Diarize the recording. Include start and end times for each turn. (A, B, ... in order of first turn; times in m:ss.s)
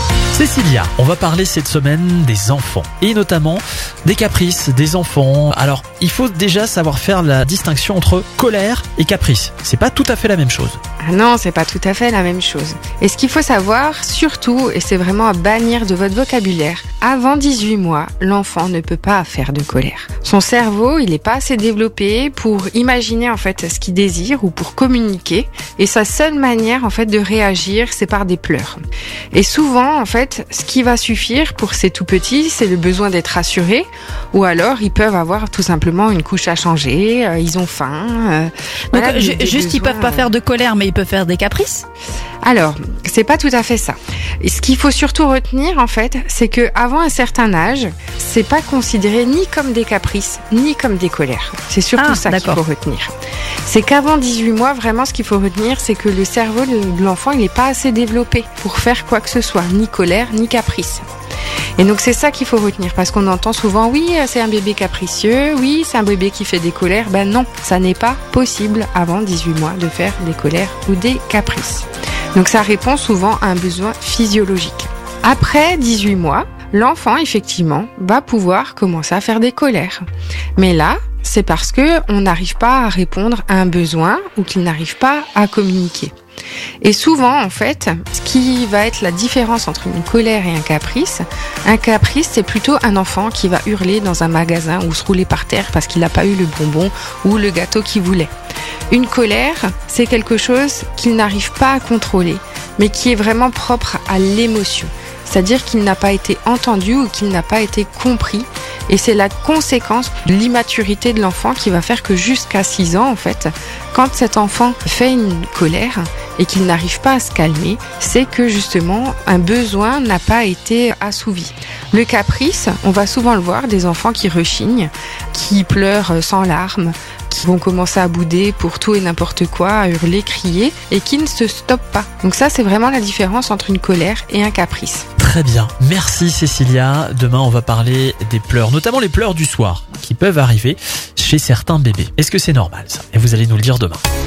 0:00.4-0:10.8 A
0:11.0-0:28.8 B
0:29.3-0:40.3 B
0:38.9-0:41.8 C
0:42.4-0:53.1 B
0:52.0-0:52.6 C
0:53.6-1:01.0 B
1:01.8-1:20.0 B
1:20.6-1:26.1 B
1:26.8-1:38.3 B
1:38.9-2:15.0 B
2:15.2-2:24.0 A